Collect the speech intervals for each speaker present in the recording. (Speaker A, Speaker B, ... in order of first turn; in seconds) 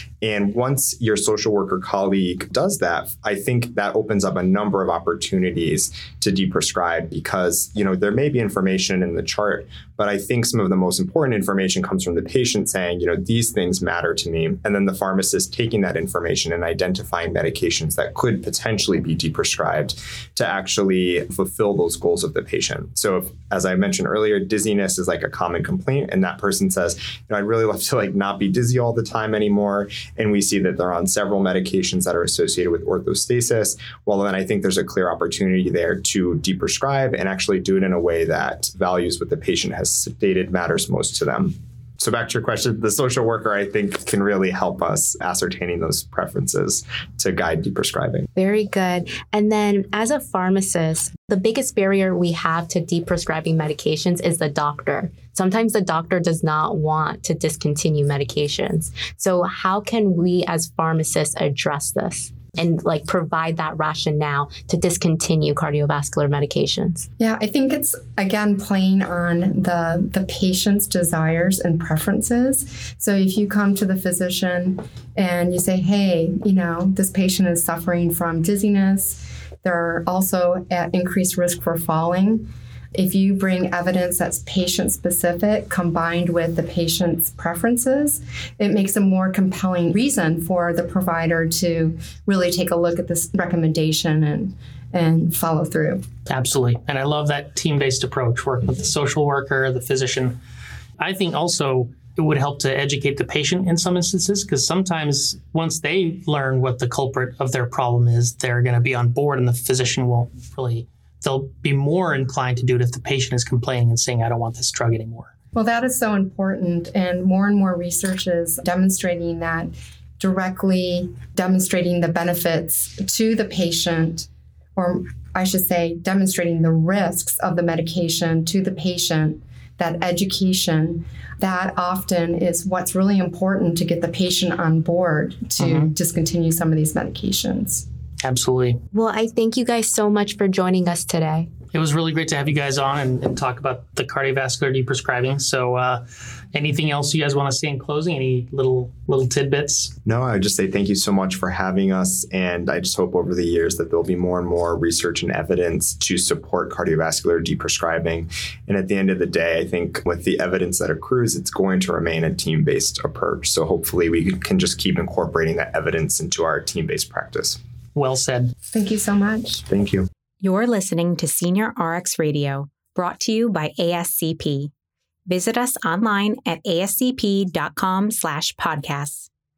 Speaker A: 0.2-48.3, 150.1-167.6, 169.7-170.1
Speaker B: 48.4-67.1, 138.9-141.5
Speaker C: 67.2-96.0, 115.5-137.9, 168.7-169.6
Speaker D: 96.3-100.4, 101.0-115.3, 135.6-135.9, 138.2-138.8, 141.7-149.9, 167.9-168.5
Speaker E: 170.4-174.7, 175.3-179.3